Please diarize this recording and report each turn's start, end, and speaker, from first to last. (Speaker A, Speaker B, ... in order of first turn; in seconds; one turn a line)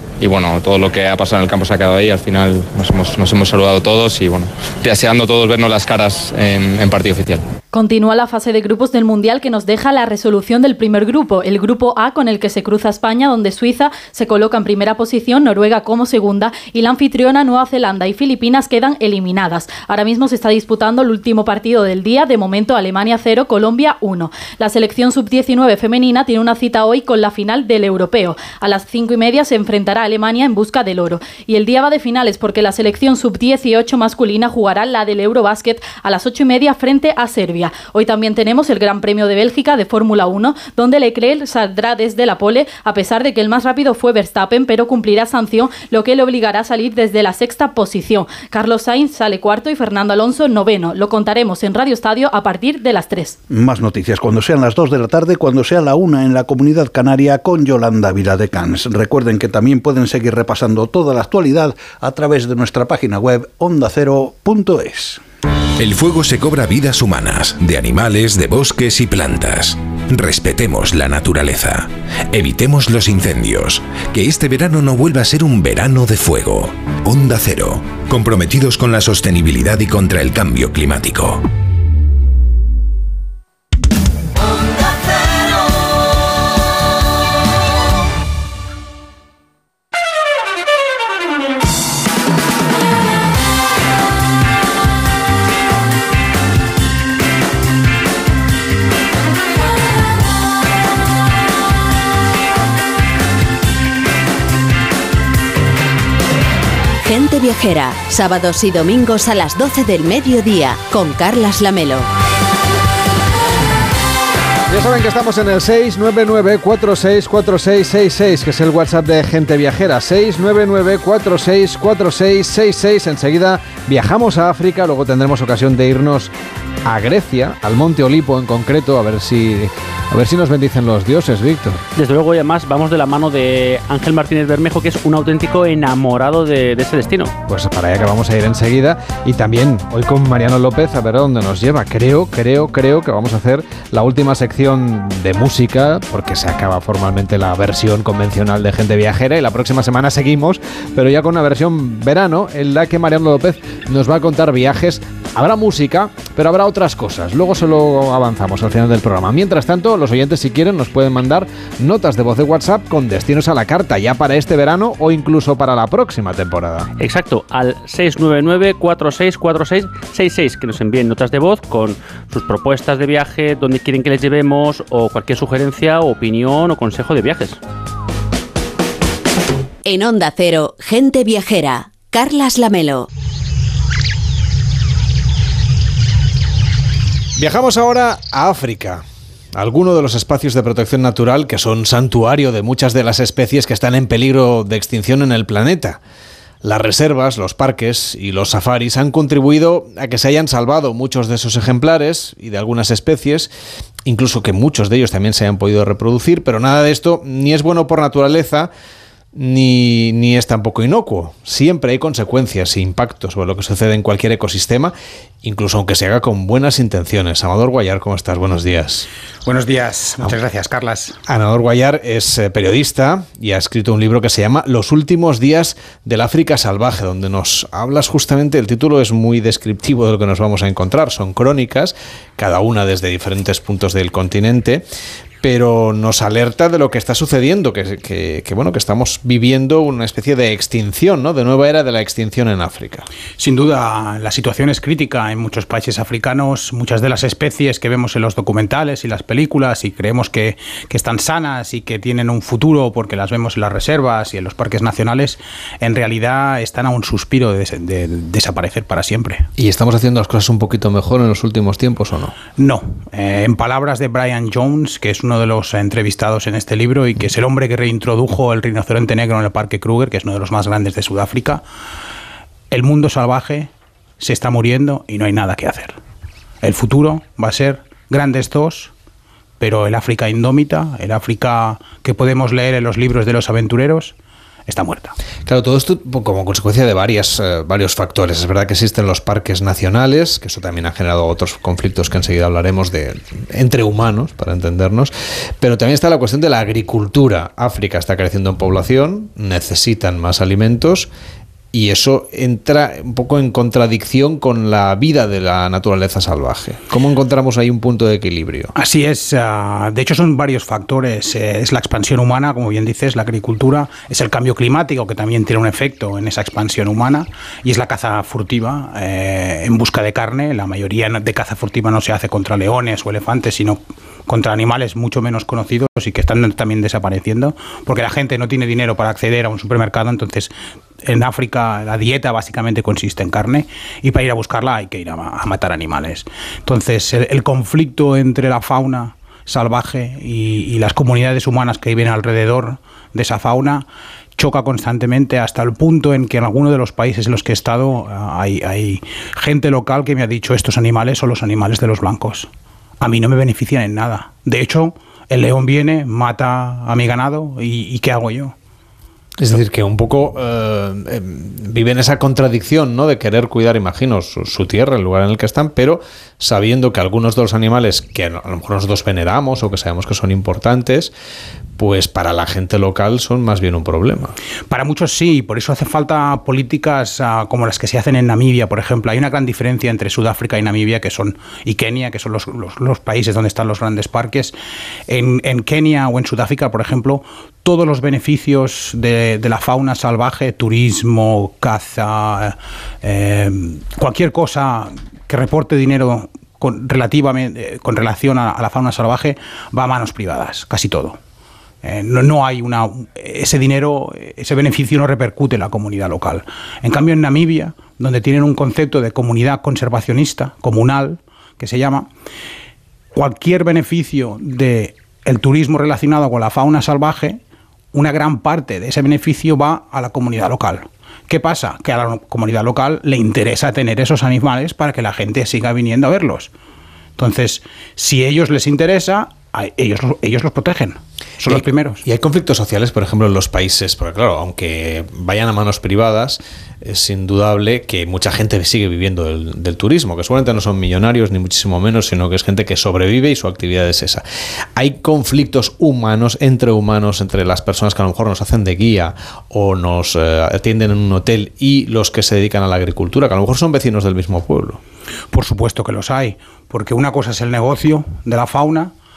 Speaker A: 0.2-7.4
Speaker B: 7.7-53.4
Speaker C: 53.5-65.2
Speaker D: 70.4-70.7
Speaker D: 77.2-81.2
Speaker E: 107.0-112.1
Speaker F: 114.7-126.3
Speaker F: 126.8-131.8
Speaker G: 131.9-137.3
Speaker F: 137.5-166.9
Speaker G: 167.0-177.6
Speaker E: 179.8-183.1
Speaker F: 187.4-189.0
Speaker F: 189.5-196.0
Speaker F: 196.6-203.5
Speaker F: 204.1-208.7
Speaker F: 209.3-219.1
Speaker H: 219.4-221.2
Speaker F: 221.3-234.8
Speaker F: 235.4-243.0
Speaker H: 243.4-259.5
Speaker F: 259.6-262.3
Speaker H: 262.6-271.6
Speaker H: 272.7-276.0
Speaker H: 276.6-278.9
Speaker H: 279.6-284.1
Speaker H: 284.7-285.1
Speaker F: 285.4-301.1
Speaker F: 301.7-308.7
Speaker H: 308.8-343.9
Speaker H: 344.4-358.5
Speaker F: 359.4-371.1
Speaker F: 371.8-374.3
Speaker H: 374.7-384.5
Speaker H: 385.1-401.2
Speaker H: 401.8-412.1
Speaker H: 413.1-417.4
Speaker H: 417.9-426.5
Speaker H: 427.2-432.0
Speaker F: 431.5-444.2
Speaker F: 444.8-454.8
Speaker H: 455.3-458.9